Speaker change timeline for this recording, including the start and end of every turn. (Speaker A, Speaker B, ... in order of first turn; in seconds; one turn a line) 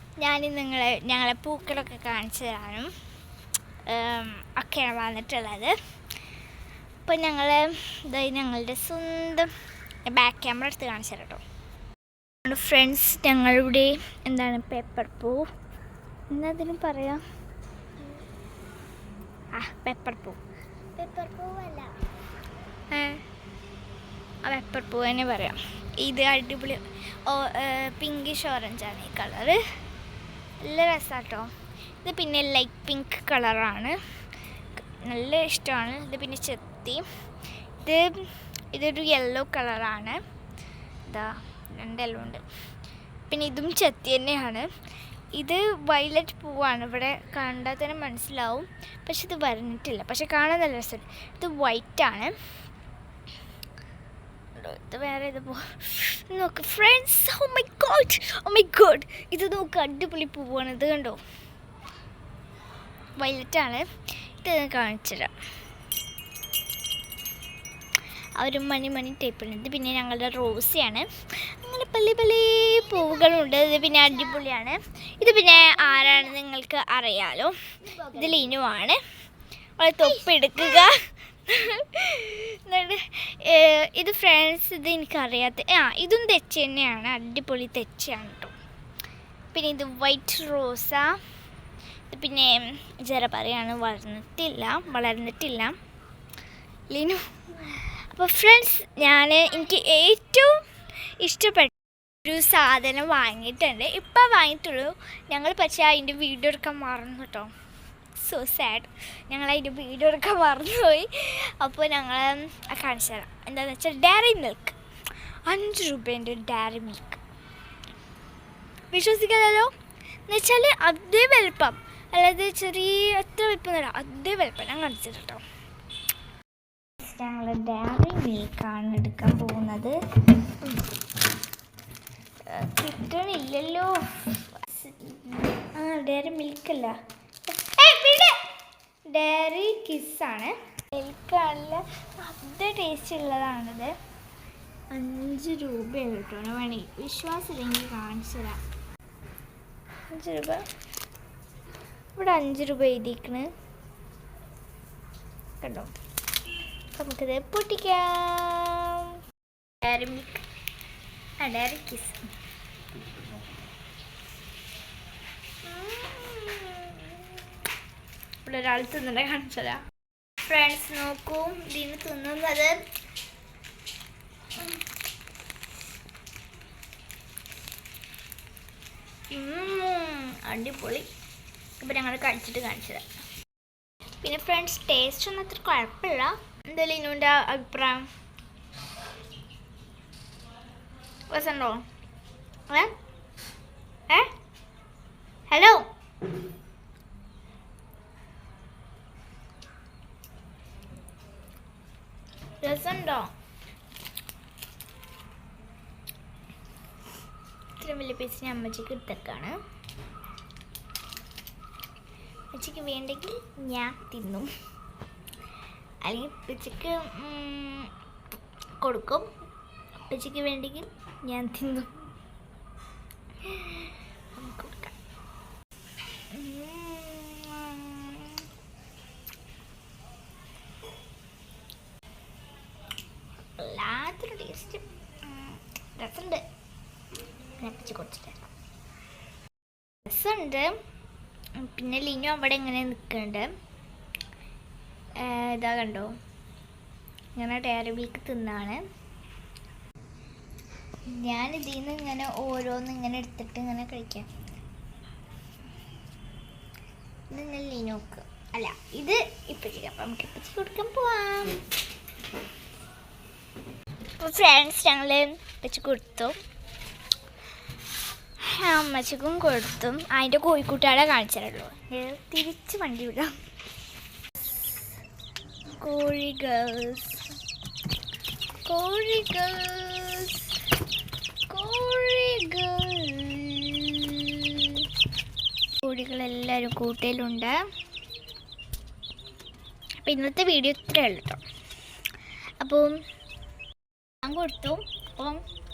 Speaker A: 0.2-2.9
Speaker A: 3.9-5.8
Speaker A: 7.0-9.5
Speaker A: 10.1-11.4
Speaker A: 12.5-15.4
Speaker A: 16.3-17.2
Speaker A: 19.5-20.4
Speaker A: 21.0-21.9
Speaker A: 22.9-23.2
Speaker A: 24.4-29.6
Speaker A: 30.6-31.5
Speaker A: 32.0-34.0
Speaker A: 34.8-37.0
Speaker A: 37.8-40.2
Speaker A: 41.1-42.4
Speaker A: 43.3-44.7
Speaker A: 45.4-52.3
Speaker A: 54.6-61.2
Speaker A: 63.2-63.9
Speaker A: 64.4-65.3
Speaker A: 68.4-77.6
Speaker A: 78.1-79.0
Speaker A: 79.8-88.5
Speaker A: 89.5-91.2
Speaker A: 92.1-95.8
Speaker A: 96.9-100.6
Speaker A: 101.2-101.7
Speaker A: 102.2-107.5
Speaker A: 108.2-114.8
Speaker A: 115.5-117.2
Speaker A: 118.9-119.7
Speaker A: 120.3-125.4
Speaker A: 127.0-130.8
Speaker A: 132.5-136.9
Speaker A: 137.5-138.5
Speaker A: 139.1-143.9
Speaker A: 144.9-148.6
Speaker A: 150.1-150.7
Speaker A: 152.2-153.5
Speaker A: 155.6-155.9
Speaker A: 156.9-159.1
Speaker A: 159.8-160.4
Speaker A: 161.4-162.2
Speaker A: 165.6-167.3
Speaker A: 168.4-169.8
Speaker A: 170.5-172.8
Speaker A: 179.3-181.1
Speaker A: 181.8-183.1
Speaker A: 184.2-188.1
Speaker A: 191.3-191.8
Speaker A: 195.5-195.9
Speaker A: 202.6-203.3
Speaker A: 207.8-209.6
Speaker A: 212.5-214.5
Speaker A: 216.0-217.9
Speaker A: 218.8-219.3
Speaker A: 220.1-221.9
Speaker A: 223.4-224.9
Speaker A: 226.3-228.4
Speaker A: 233.6-236.4
Speaker A: 237.6-238.5
Speaker A: 240.1-240.7
Speaker A: 241.6-243.5
Speaker A: 245.2-246.1
Speaker A: 247.3-248.8
Speaker A: 251.1-254.3
Speaker A: 257.3-261.6
Speaker A: 264.2-266.3
Speaker A: 268.4-273.3
Speaker A: 275.8-277.2
Speaker A: 278.6-280.5
Speaker A: 281.5-284.9
Speaker A: 285.8-287.6
Speaker A: 290.0-291.4
Speaker A: 292.6-292.9
Speaker A: 294.2-295.4